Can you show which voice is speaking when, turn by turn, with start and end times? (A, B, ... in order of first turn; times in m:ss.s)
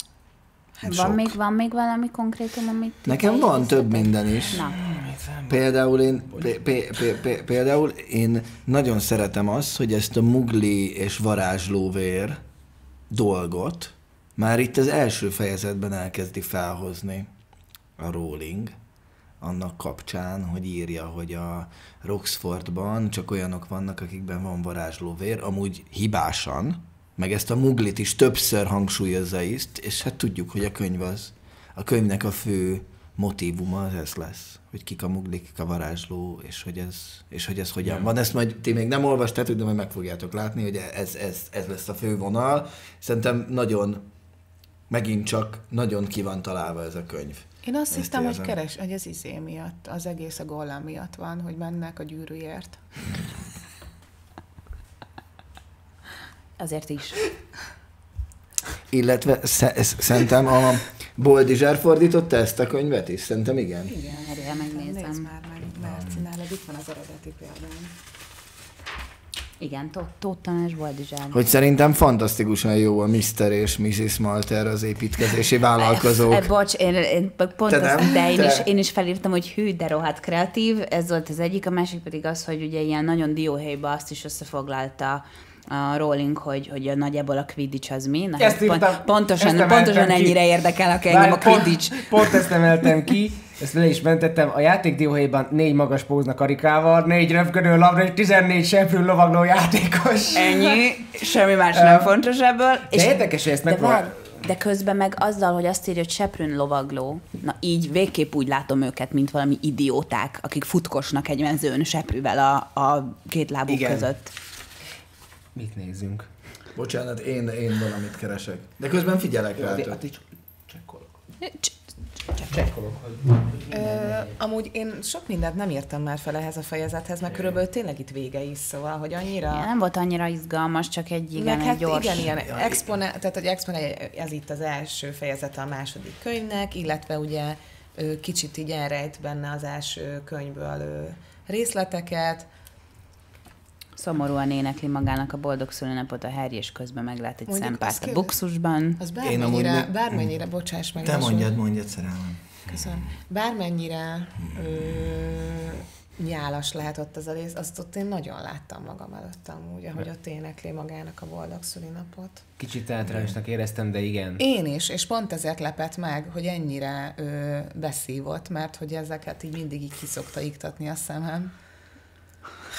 0:00.8-0:01.3 A
0:00.8-0:04.8 B
0:03.0-0:04.7 A
0:04.5-0:05.6 C
0:05.5-0:12.4 A
0:06.3-0:07.0 C
0:13.1-0:17.3 A
0:18.0-0:18.7 A
0:19.4-0:44.1 A
0:44.9-0:48.6 A
0:47.6-0:52.8 D
0:56.6-0:57.2 B
0:58.9-1:03.9 A
1:03.9-1:07.9 D
1:04.1-1:05.3 B
1:09.6-1:11.4 B
1:11.3-1:16.5 A
1:15.8-1:32.4 B
1:17.7-1:18.7 A
1:28.4-1:30.4 C
1:31.1-1:40.8 C
1:40.3-1:54.3 B
1:41.7-1:42.1 C
1:42.9-1:44.2 C
1:53.7-1:54.1 C
1:55.5-1:56.3 C
1:56.7-2:00.0 A
1:59.6-2:01.2 C
2:01.4-2:01.7 B
2:02.4-2:04.3 C
2:03.7-2:09.7 D
2:07.3-2:07.5 C
2:09.5-2:12.3 B
2:11.4-2:22.5 D
2:12.4-2:12.8 A
2:24.0-2:29.0 B
2:27.5-2:28.4 D
2:29.0-2:31.5 D
2:29.2-2:30.3 A
2:31.0-2:32.8 A
2:32.7-2:42.4 D
2:34.5-2:34.9 A
2:42.6-2:44.4 C
2:43.1-2:43.3 A
2:44.4-2:51.5 D